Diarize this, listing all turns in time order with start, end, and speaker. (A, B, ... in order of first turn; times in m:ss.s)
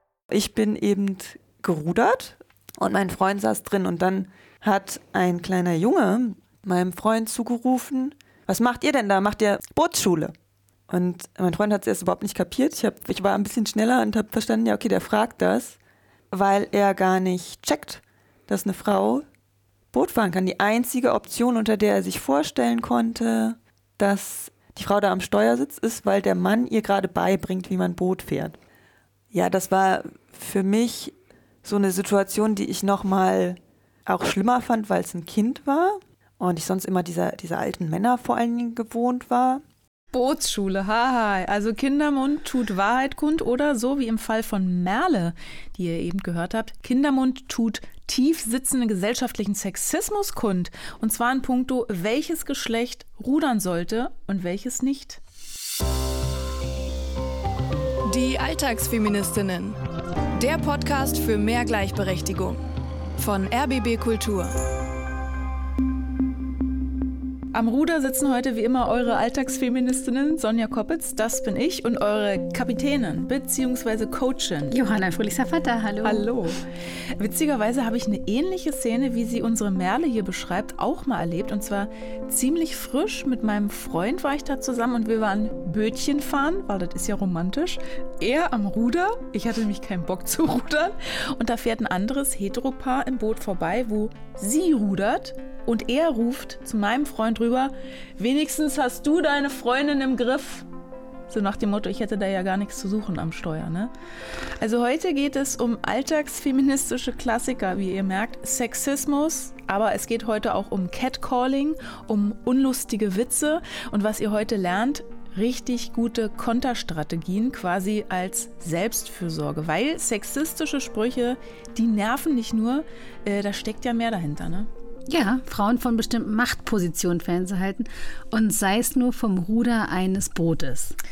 0:00.3-0:10.3 A
0:10.9-0:15.8 A
0:16.3-0:19.2 A
0:19.9-0:28.6 A
0:29.3-0:39.6 A
0:40.1-0:55.2 B
0:58.0-0:59.8 C
1:00.4-1:02.6 C
1:03.2-1:04.5 C
1:07.5-1:14.7 B
1:14.7-1:16.3 D
1:16.0-1:16.6 B
1:17.2-1:40.7 B
1:41.3-1:43.9 B
1:44.6-2:04.7 B
2:05.1-2:11.0 D